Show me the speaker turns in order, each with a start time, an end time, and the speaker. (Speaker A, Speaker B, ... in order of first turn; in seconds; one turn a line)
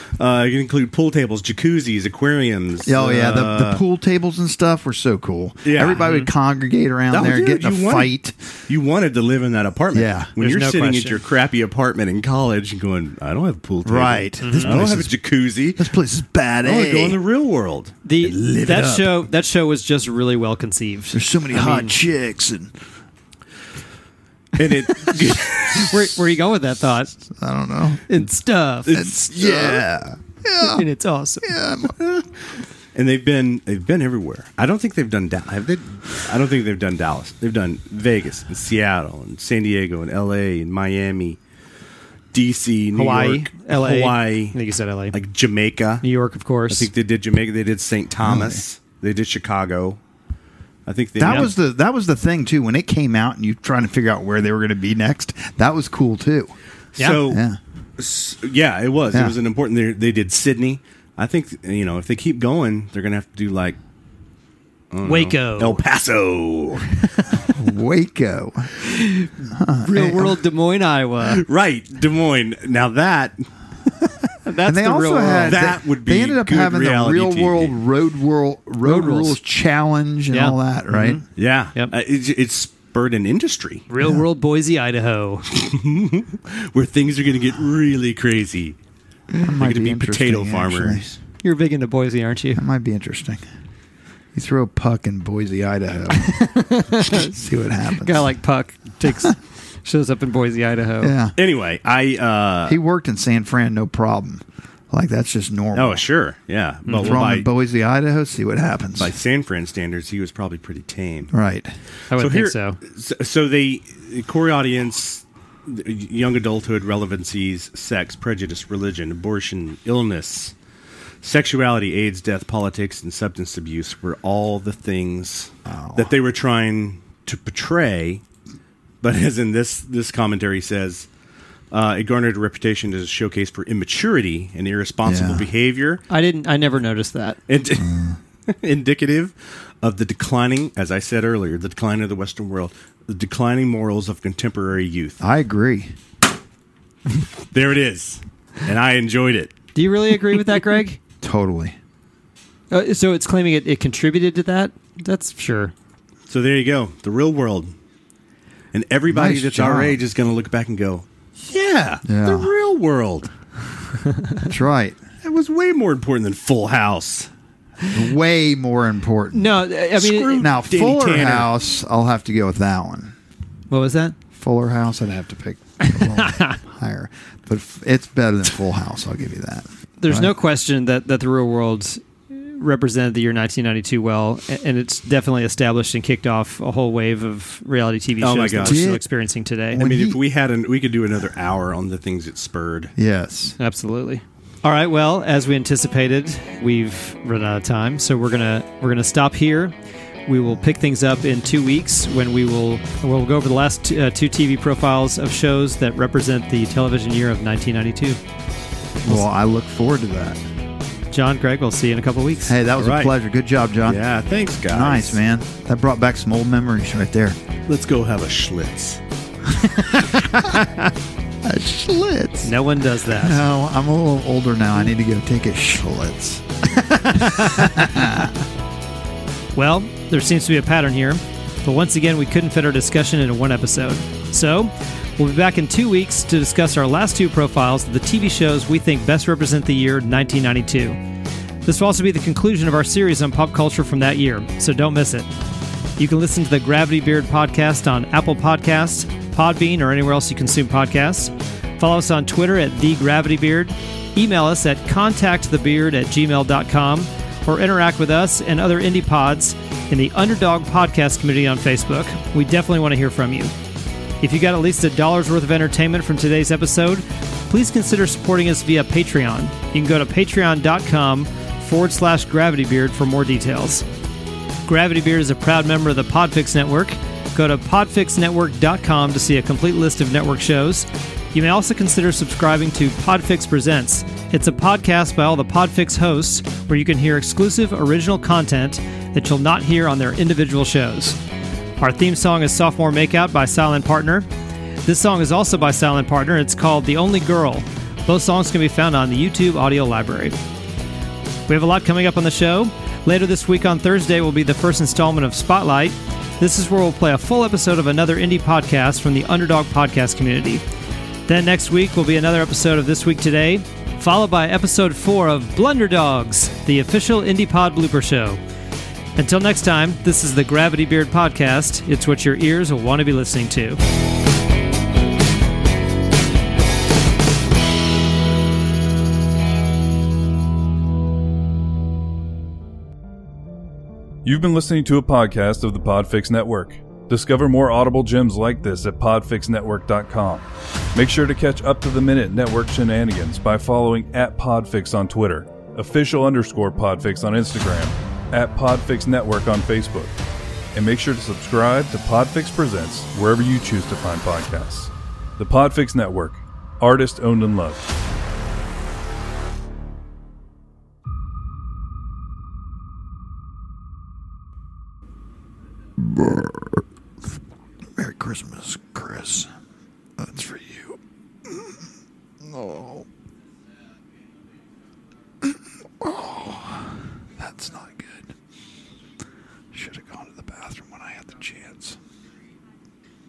Speaker A: 0.2-3.8
Speaker B: 2.8-8.3
Speaker A: 5.6-6.0
Speaker C: 6.0-6.3
Speaker A: 7.1-8.1
Speaker A: 8.7-15.9
Speaker B: 9.9-10.3
Speaker C: 10.4-11.2
Speaker B: 13.8-15.2
Speaker C: 14.4-14.8
Speaker B: 15.7-17.2
Speaker A: 16.6-19.3
Speaker C: 18.0-22.0
Speaker B: 21.1-22.7
Speaker A: 24.6-26.0
Speaker C: 25.8-27.1
Speaker B: 27.4-28.2
Speaker C: 28.1-28.9
Speaker A: 28.9-29.9
Speaker B: 28.9-30.9
Speaker C: 30.6-31.5
Speaker B: 31.4-32.0
Speaker A: 31.9-41.4
Speaker A: 42.3-44.6
Speaker C: 42.9-45.1
Speaker A: 45.1-46.1
Speaker C: 46.0-46.9
Speaker A: 46.7-50.0
Speaker B: 48.2-48.6
Speaker A: 50.9-51.5
Speaker B: 51.2-56.5
Speaker A: 56.9-57.4
Speaker B: 57.2-57.6
Speaker A: 58.0-63.8
Speaker A: 64.9-66.9
Speaker C: 65.0-65.8
Speaker B: 67.5-68.7
Speaker C: 68.8-69.3
Speaker B: 69.4-70.3
Speaker C: 69.8-71.4
Speaker A: 71.2-73.5
Speaker C: 74.4-75.7
Speaker B: 74.6-81.2
Speaker A: 75.5-77.8
Speaker C: 78.8-79.4
Speaker C: 80.3-81.2
Speaker A: 81.3-83.9
Speaker C: 83.9-85.4
Speaker A: 85.5-88.8
Speaker B: 89.4-91.1
Speaker A: 89.4-91.2
Speaker C: 91.4-92.6
Speaker B: 92.5-93.4
Speaker B: 94.3-98.3
Speaker C: 96.3-97.3
Speaker C: 98.0-101.2
Speaker B: 101.0-101.3
Speaker A: 101.3-102.8
Speaker B: 102.7-106.0
Speaker A: 105.7-107.5
Speaker C: 106.9-107.2
Speaker B: 107.0-109.1
Speaker A: 109.0-111.3
Speaker B: 111.3-111.7
Speaker C: 112.1-112.8
Speaker A: 112.1-120.5
Speaker A: 121.2-128.2
Speaker B: 125.7-126.1
Speaker A: 129.0-131.1
Speaker A: 131.7-136.0
Speaker B: 135.0-135.5
Speaker C: 136.1-137.4
Speaker A: 137.5-145.2
Speaker B: 137.8-138.2
Speaker B: 145.2-145.9
Speaker A: 147.5-149.5
Speaker C: 149.7-151.0
Speaker B: 151.2-151.8
Speaker C: 152.7-155.7
Speaker A: 156.3-157.7
Speaker A: 158.7-163.3
Speaker B: 159.1-160.0
Speaker B: 162.1-162.5
Speaker B: 164.4-165.0
Speaker A: 165.2-167.3
Speaker B: 167.9-169.6
Speaker C: 169.3-170.5
Speaker A: 169.9-171.5
Speaker B: 170.3-173.1
Speaker C: 173.7-174.2
Speaker B: 174.3-180.3
Speaker C: 175.8-176.6
Speaker C: 180.0-189.8
Speaker A: 188.2-188.9
Speaker B: 188.6-189.0
Speaker B: 189.7-190.2
Speaker A: 189.8-192.9
Speaker B: 193.0-193.5
Speaker C: 193.6-199.7
Speaker C: 200.3-208.2
Speaker B: 209.0-210.4
Speaker C: 211.1-212.6
Speaker B: 212.5-214.0
Speaker A: 212.8-213.1
Speaker A: 213.8-215.2
Speaker B: 214.7-217.4
Speaker A: 217.7-219.0
Speaker C: 219.9-220.9
Speaker B: 221.4-222.5
Speaker C: 222.4-223.4
Speaker B: 223.1-226.5
Speaker C: 226.7-227.9
Speaker B: 227.4-228.3
Speaker C: 229.5-241.0
Speaker C: 241.6-245.3
Speaker C: 246.0-263.5
Speaker C: 264.2-273.8
Speaker C: 274.6-291.2
Speaker C: 291.8-294.3
Speaker C: 294.8-300.4
Speaker C: 301.5-310.6
Speaker C: 311.3-318.4
Speaker C: 319.1-323.8
Speaker D: 334.2-350.1
Speaker D: 350.7-357.9
Speaker B: 366.1-366.8
Speaker B: 367.9-369.5
Speaker B: 370.2-371.8
Speaker B: 372.4-373.1
Speaker B: 375.4-378.3
Speaker B: 379.7-382.0